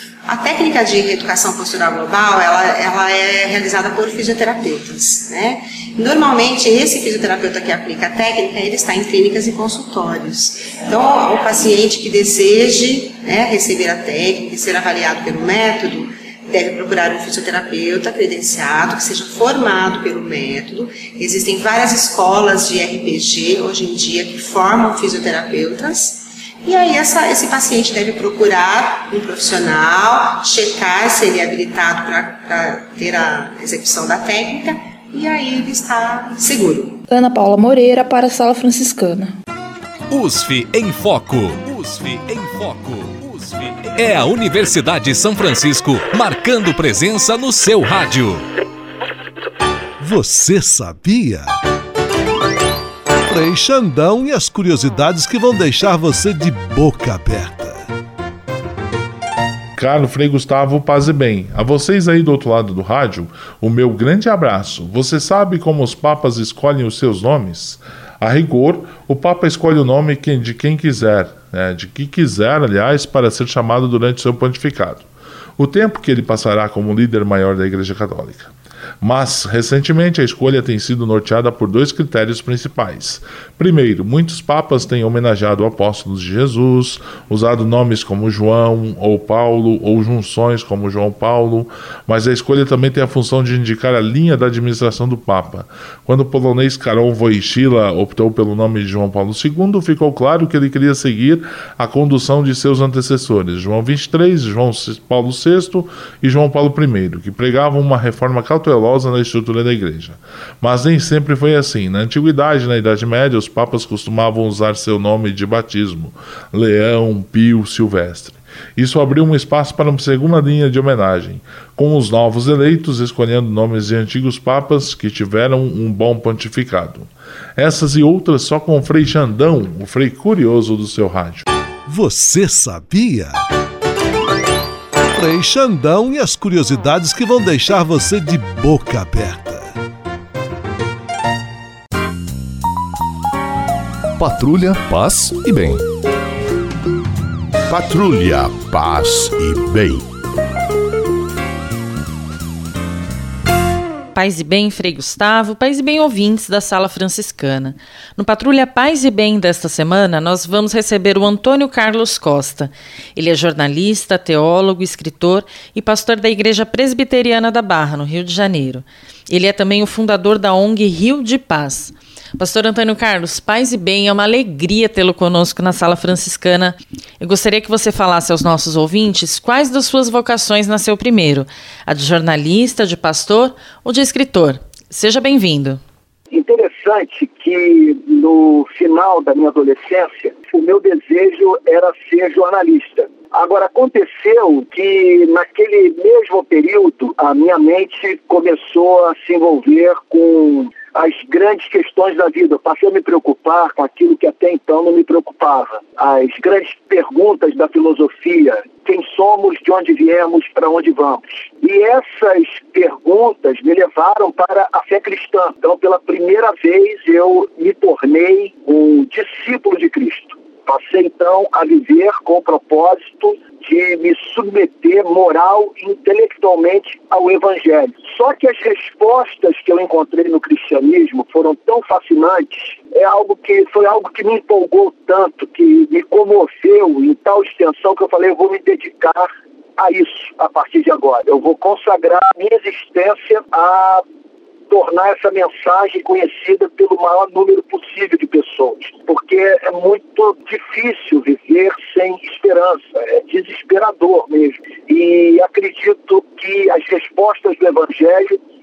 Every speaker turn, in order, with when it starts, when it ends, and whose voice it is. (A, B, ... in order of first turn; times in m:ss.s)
0:00.3-0:37.0 A
0:37.1-0:39.3 B
0:40.1-0:48.4 C
0:50.0-0:51.5 D
0:53.3-0:57.8 D
0:59.8-2:11.4 E
2:11.9-2:13.4 D
2:15.1-2:19.7 D
2:24.2-2:25.8 C
2:27.7-2:30.1 F
2:34.1-3:05.8 G
3:06.3-4:04.0 H
4:04.7-4:18.4 H